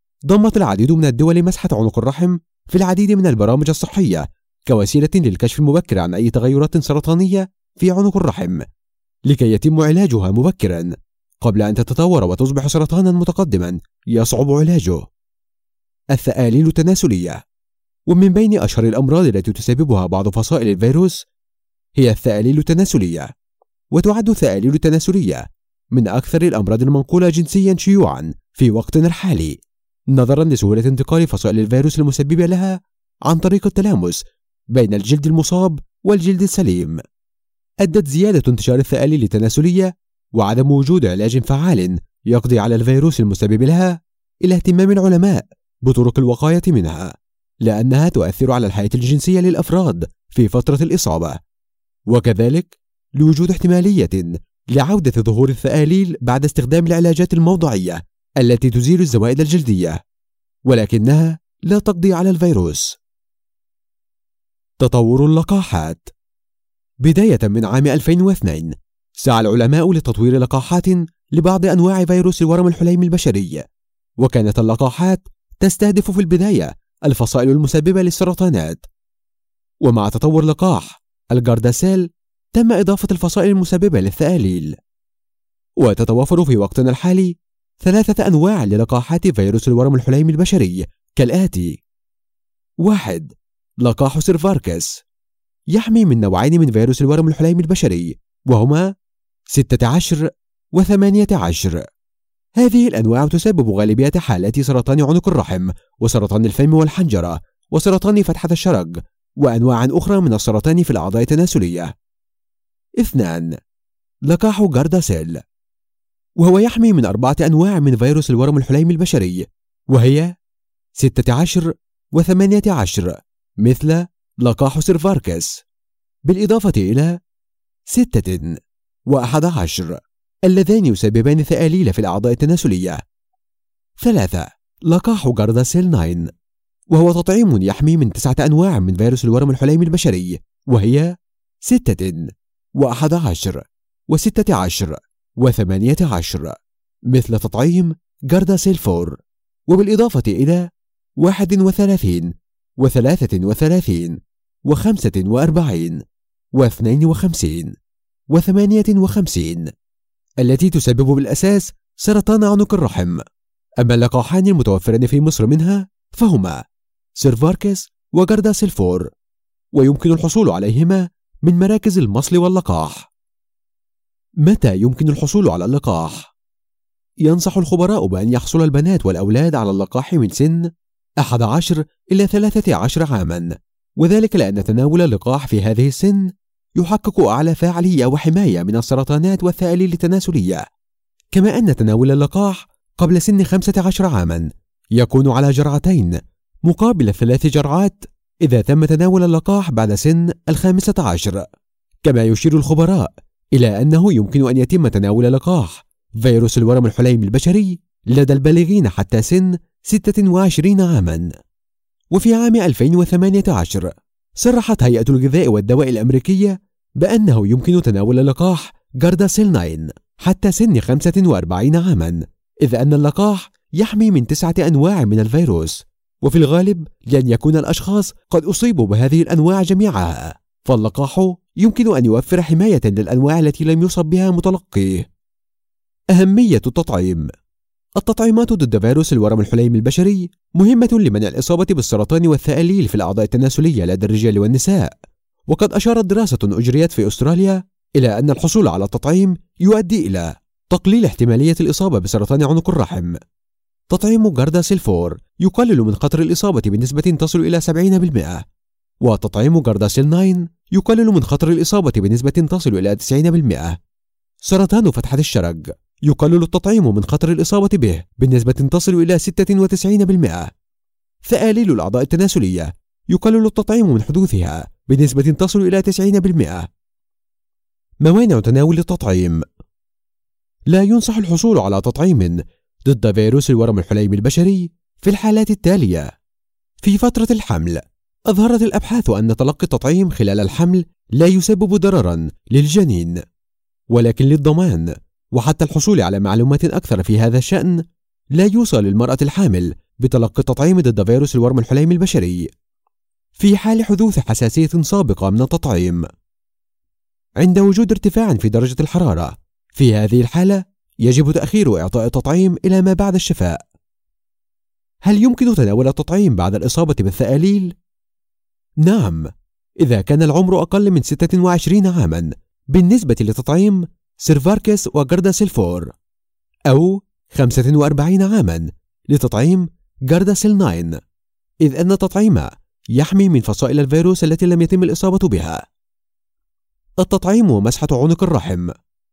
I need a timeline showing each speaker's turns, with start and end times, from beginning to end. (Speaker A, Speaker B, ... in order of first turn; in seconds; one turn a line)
Speaker A: 0.3-8.6
Speaker A: 9.3-15.1
Speaker A: 16.1-17.4
Speaker A: 18.1-21.2
Speaker A: 22.0-23.3
Speaker A: 23.9-29.6
Speaker A: 30.1-37.0
Speaker A: 37.8-51.4
Speaker A: 52.1-60.0
Speaker A: 60.7-63.0
Speaker A: 64.8-66.1
Speaker A: 67.0-73.7
Speaker A: 74.2-78.8
Speaker A: 79.8-84.8
Speaker A: 85.8-91.8
Speaker A: 92.8-95.0
Speaker A: 95.7-98.9
Speaker A: 99.5-101.8
Speaker A: 102.6-111.9
Speaker A: 113.0-113.5
Speaker A: 114.3-115.4
Speaker A: 116.4-120.3
Speaker A: 121.0-125.6
Speaker A: 126.3-127.2
Speaker A: 127.9-128.6
Speaker A: 129.1-133.0
Speaker A: 134.0-136.3
Speaker A: 136.9-142.3
Speaker A: 142.8-146.6
Speaker A: 147.1-150.7
Speaker A: 151.2-156.0
Speaker A: 156.6-157.8
Speaker A: 158.3-159.7
Speaker A: 160.4-163.2
Speaker A: 163.8-166.6
Speaker A: 167.2-169.1
Speaker A: 169.7-173.1
Speaker A: 174.4-176.3
Speaker A: 177.2-180.7
Speaker A: 181.2-190.7
Speaker A: 191.3-201.5
Speaker A: 202.0-211.3
Speaker A: 212.1-235.1
Speaker A: 236.1-237.3
Speaker A: 238.0-245.0
Speaker A: 245.5-253.2
Speaker A: 253.9-258.4
Speaker A: 259.0-263.8
Speaker A: 264.4-270.5
Speaker A: 271.2-276.7
Speaker A: 278.0-279.4
Speaker A: 280.7-286.1
Speaker A: 286.8-293.2
Speaker A: 293.9-297.8
Speaker A: 298.3-302.5
Speaker A: 303.4-306.0
Speaker A: 307.4-313.6
Speaker A: 315.1-317.7
Speaker A: 318.8-319.3
Speaker A: 319.8-325.9
Speaker A: 326.7-331.0
Speaker A: 331.6-335.6
Speaker A: 337.0-338.7